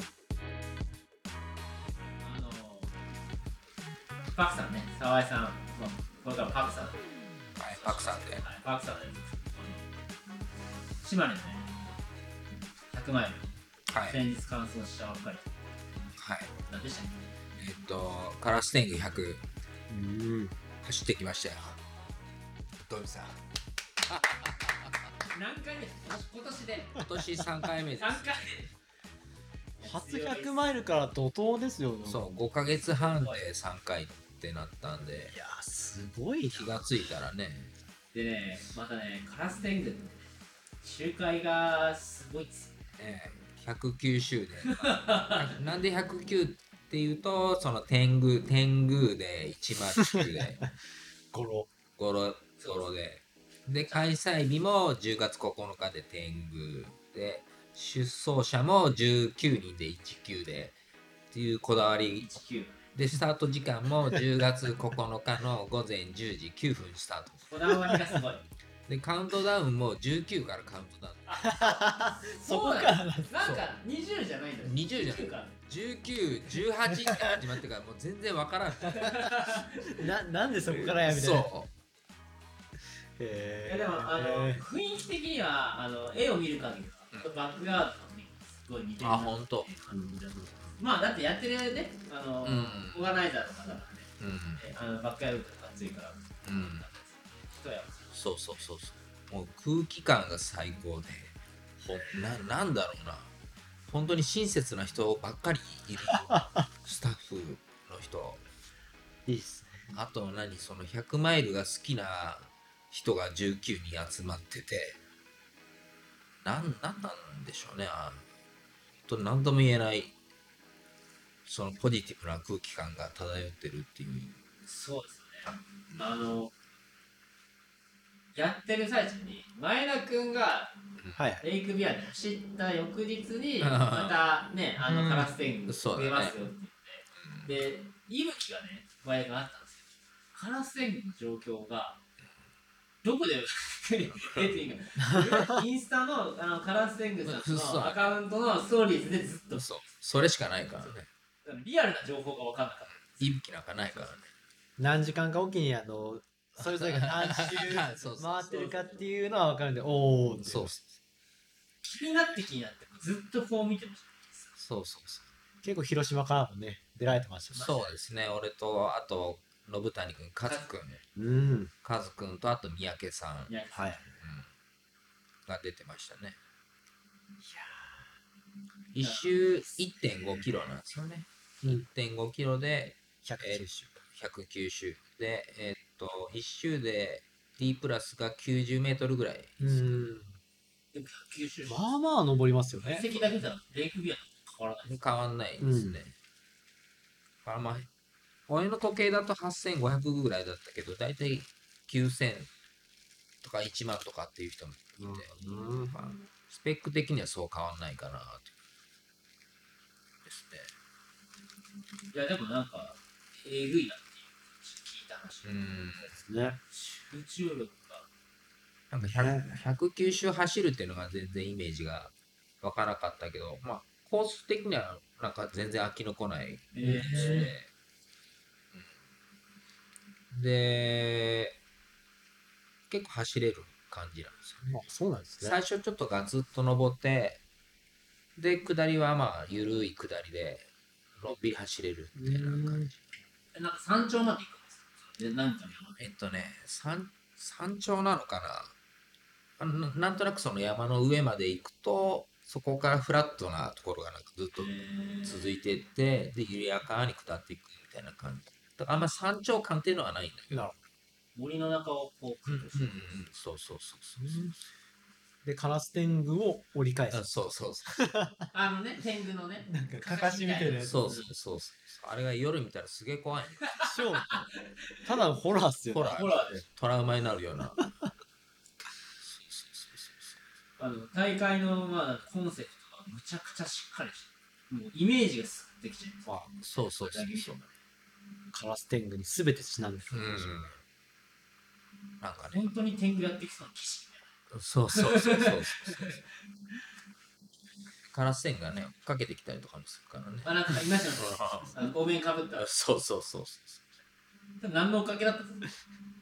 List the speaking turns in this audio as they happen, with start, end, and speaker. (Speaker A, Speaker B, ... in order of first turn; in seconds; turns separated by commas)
Speaker A: 2.2-2.9, Speaker A: 4.3-7.0, Speaker B: 7.6-8.5, Speaker A: 7.7-9.9, Speaker A: 11.0-11.7, Speaker A: 12.9-15.5, Speaker B: 13.9-14.2, Speaker B: 16.2-16.5, Speaker A: 16.7-17.2, Speaker B: 17.6-19.4, Speaker C: 19.9-20.6, Speaker B: 20.8-21.8, Speaker B: 22.8-23.4, Speaker B: 24.1-25.1, Speaker A: 25.3-27.0, Speaker B: 26.9-28.6, Speaker A: 28.0-28.6, Speaker A: 29.8-30.6, Speaker C: 29.8-32.3, Speaker B: 32.0-35.3, Speaker A: 33.0-33.5, Speaker C: 35.3-36.9, Speaker B: 36.5-37.7, Speaker A: 38.1-40.3, Speaker A: 40.8-42.8, Speaker B: 43.0-50.6, Speaker A: 44.8-45.4, Speaker C: 51.3-51.7, Speaker B: 52.0-60.8, Speaker A: 52.6-52.9, Speaker B: 61.3-62.4, Speaker A: 62.2-62.8, Speaker B: 62.9-67.5, Speaker A: 67.5-68.4, Speaker B: 68.9-71.4, Speaker A: 71.3-75.5, Speaker C: 71.4-73.3, Speaker B: 73.4-73.7, Speaker B: 74.6-79.4, Speaker C: 76.9-77.3, Speaker A: 78.9-80.0, Speaker C: 80.0-81.5, Speaker B: 80.7-81.7, Speaker C: 83.2-84.6, Speaker A: 83.7-98.7, Speaker B: 89.0-89.7, Speaker C: 89.9-90.8, Speaker B: 92.4-93.0, Speaker B: 94.2-94.6, Speaker B: 96.4-96.8, Speaker B: 98.1-103.3, Speaker B: 103.9-108.4, Speaker C: 106.1-106.4, Speaker C: 109.2-109.9, Speaker B: 109.9-115.0, Speaker B: 116.4-118.2, Speaker B: 119.0-120.1, Speaker B: 121.5-124.4, Speaker A: 124.6-126.5, Speaker A: 128.3-130.7, Speaker C: 131.2-131.4, Speaker A: 131.4-142.0, Speaker B: 133.6-134.2, Speaker B: 134.8-136.4, Speaker B: 137.2-137.5, Speaker A: 143.0-149.8, Speaker B: 144.1-144.6, Speaker C: 145.1-145.6, Speaker B: 147.2-148.1, Speaker B: 149.5-151.1, Speaker A: 150.8-153.3, Speaker B: 153.1-154.3, Speaker C: 154.8-160.7, Speaker B: 156.6-158.5, Speaker A: 158.5-159.0, Speaker B: 160.4-160.9, Speaker A: 161.8-164.5, Speaker B: 164.6-165.3, Speaker C: 165.6-167.7, Speaker A: 167.5-167.9, Speaker B: 167.6-171.0, Speaker A: 170.4-170.7, Speaker C: 171.1-171.7, Speaker B: 171.8-173.6, Speaker A: 173.5-174.1, Speaker C: 173.7-174.0, Speaker B: 174.2-174.5, Speaker B: 175.5-176.4, Speaker C: 177.4-178.1, Speaker B: 178.9-189.8, Speaker A: 179.0-180.5, Speaker C: 183.2-184.0, Speaker C: 189.6-190.3, Speaker A: 190.9-191.9, Speaker C: 191.7-193.0, Speaker A: 192.8-195.0, Speaker B: 194.8-196.1, Speaker C: 195.6-195.9, Speaker B: 197.4-197.9, Speaker B: 198.5-202.5, Speaker B: 203.4-208.5, Speaker C: 205.0-205.9, Speaker B: 210.2-210.7, Speaker A: 212.1-216.1, Speaker B: 215.4-216.1, Speaker C: 216.2-216.6, Speaker A: 216.7-218.1, Speaker B: 218.9-227.7, Speaker C: 219.0-219.6, Speaker A: 226.7-227.5, Speaker C: 226.8-227.5, Speaker B: 230.3-231.6, Speaker B: 232.9-234.8, Speaker C: 234.7-235.6, Speaker B: 235.4-237.4, Speaker B: 238.3-243.1, Speaker C: 242.2-242.9, Speaker A: 243.5-246.0, Speaker B: 246.0-248.7, Speaker B: 249.6-254.7, Speaker A: 254.6-255.5, Speaker B: 255.2-260.7, Speaker C: 260.5-260.8, Speaker A: 261.4-263.0, Speaker B: 262.5-264.6, Speaker C: 262.7-263.0, Speaker C: 264.2-264.5, Speaker C: 265.4-267.3, Speaker B: 267.1-268.1, Speaker C: 267.9-268.5, Speaker A: 268.5-271.3, Speaker C: 269.7-271.0, Speaker B: 270.8-273.8, Speaker A: 273.8-275.1, Speaker C: 273.8-274.4, Speaker C: 275.1-276.2, Speaker B: 275.9-277.8, Speaker A: 276.1-276.6, Speaker B: 279.2-280.4, Speaker A: 280.8-286.3, Speaker B: 286.6-287.6, Speaker A: 287.0-287.7, Speaker C: 288.5-290.5, Speaker B: 290.1-290.8, Speaker B: 292.2-292.7, Speaker A: 292.5-294.3, Speaker B: 294.5-296.2, Speaker A: 294.9-296.1, Speaker B: 298.1-301.9, Speaker A: 300.4-302.7, Speaker B: 302.6-303.9, Speaker A: 304.6-305.7